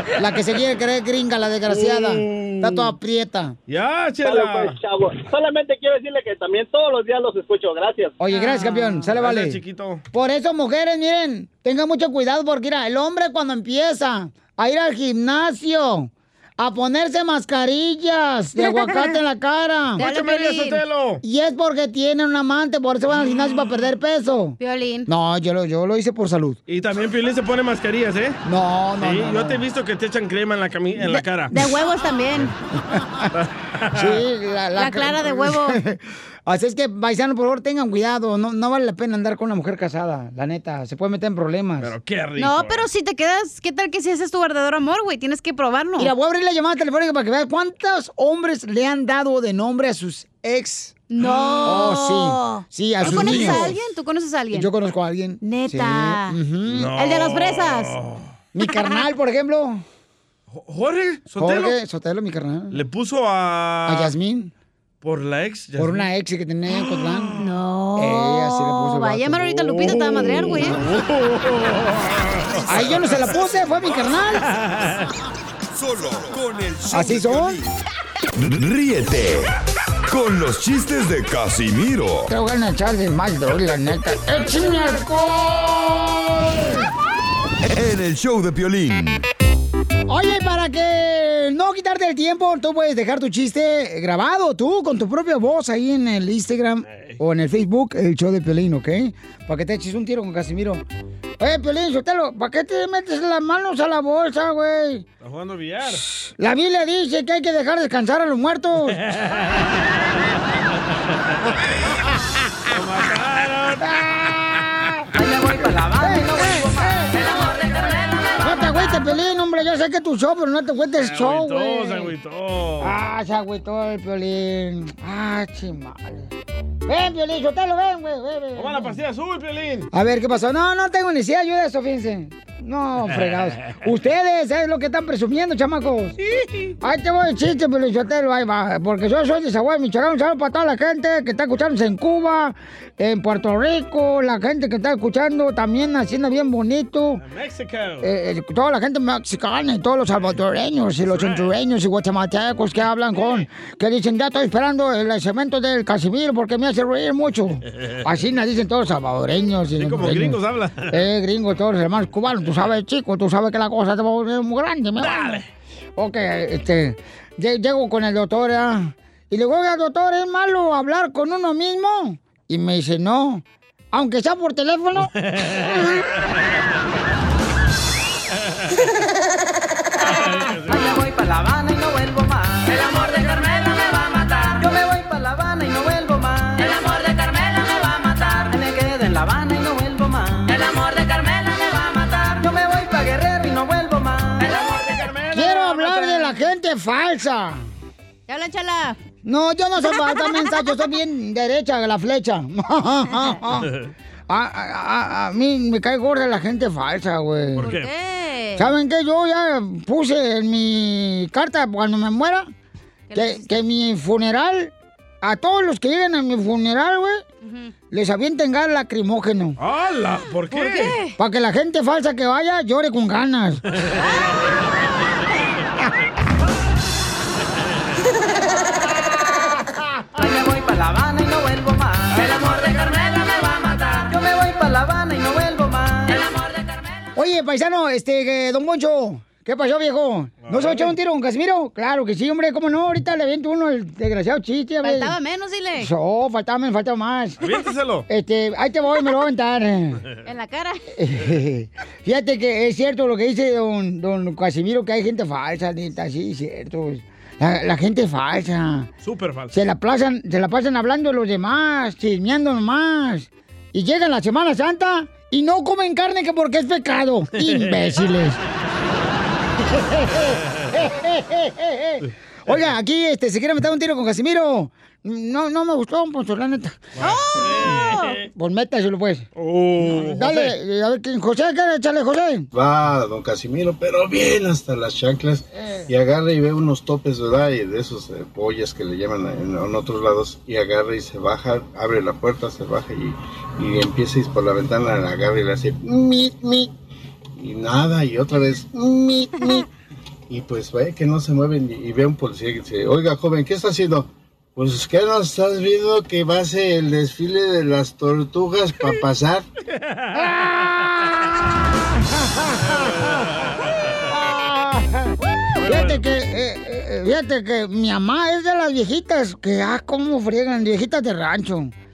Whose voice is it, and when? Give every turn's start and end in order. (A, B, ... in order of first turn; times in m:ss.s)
0:00.2-0:03.6 A
0:01.7-0:02.9 B
0:03.7-0:04.8 B
0:04.2-0:08.2 C
0:08.2-0:09.6 A
0:08.3-0:09.1 D
0:09.1-0:10.0 B
0:10.1-0:20.0 A
0:18.6-0:19.2 D
0:20.0-0:20.8 D
0:20.0-0:21.2 B
0:21.2-0:26.6 A
0:24.6-0:25.1 D
0:26.7-0:28.4 B
0:28.4-0:29.6 A
0:29.0-0:31.5 B
0:31.5-0:32.5 D
0:32.7-0:33.3 A
0:33.3-0:34.1 B
0:33.9-0:41.9 A
0:34.8-0:35.8 D
0:41.8-0:42.9 B
0:42.4-0:46.1 D
0:46.0-0:51.0 A
0:51.1-0:54.7 D
0:51.2-0:51.7 B
0:51.6-0:53.8 A
0:53.0-0:53.7 B
0:54.5-0:56.9 A
0:55.4-0:58.0 D
0:56.6-0:58.3 B
0:58.5-0:59.8 A
0:58.7-0:59.0 D
1:00.5-1:01.8 B
1:01.4-1:02.8 A
1:02.7-1:04.1 B
1:03.8-1:04.5 A
1:05.0-1:06.1 B
1:05.8-1:07.4 A
1:06.7-1:07.4 B
1:07.4-1:10.9 D
1:07.9-1:09.4 A
1:09.4-1:13.0 B
1:12.6-1:14.5 A
1:12.7-1:13.2 E
1:14.2-1:15.1 B
1:15.7-1:17.7 E
1:16.9-1:17.6 A
1:18.4-1:19.5 E
1:20.1-1:22.3 E
1:22.3-1:26.9 A
1:27.6-1:29.2 E
1:30.1-1:40.8 A
1:36.8-1:37.2 B
1:41.4-1:45.0 A
1:45.2-1:46.0 B
1:45.9-1:49.0 A
1:49.1-1:49.6 B
1:52.7-1:54.6 B
1:55.1-1:58.4 F
1:56.0-1:57.3 A
1:58.4-2:02.1 A
2:01.0-2:02.9 B
2:02.8-2:06.3 A
2:06.9-2:09.0 A
2:08.5-2:09.9 B
2:09.9-2:16.2 A
2:13.1-2:13.8 B
2:16.2-2:16.7 B
2:16.8-2:27.2 A
2:27.2-2:28.1 B
2:28.0-2:45.4 A
2:31.1-2:31.4 B
2:33.2-2:33.4 B
2:39.8-2:41.0 B
2:45.0-2:45.5 B
2:46.0-2:55.1 A
2:55.2-2:56.0 B
3:00.0-3:01.0 B
3:00.7-3:14.6 F
3:14.5-3:16.1 B
3:15.3-3:17.7 A
3:18.3-3:19.0 D
3:19.2-3:23.7 A
3:19.8-3:20.8 D
3:23.1-3:23.4 D
3:24.3-3:27.7 A
3:27.6-3:27.9 B
3:27.6-3:28.7 D
3:28.6-3:32.5 A
3:33.1-3:33.5 D
3:33.1-3:37.2 A
3:37.4-3:37.7 D
3:37.9-3:39.6 A
3:39.6-3:40.9 B
3:40.5-3:41.2 D
3:41.2-3:43.6 A
3:50.2-3:56.8 F
3:57.2-4:05.1 A
4:00.4-4:00.9 B
4:04.8-4:05.9 D
4:05.8-4:07.4 A
4:07.4-4:08.0 B
4:08.1-4:10.0 A
4:10.2-4:10.8 D
4:11.0-4:18.9 A
4:19.0-4:19.6 B
4:19.5-4:28.4 A
4:27.4-4:27.8 B
4:29.6-4:36.9 A
4:37.0-4:38.2 B
4:37.0-4:38.2 D
4:38.3-4:39.3 A
4:39.4-4:40.5 B
4:39.8-4:42.5 A
4:42.5-4:56.7 G
4:45.5-4:45.9 A
4:57.4-4:59.6 G
5:00.3-5:09.5 G
5:09.8-5:10.6 B
5:10.1-5:13.3 A
5:12.9-5:13.2 B
5:14.0-5:21.7 A
5:15.6-5:16.0 B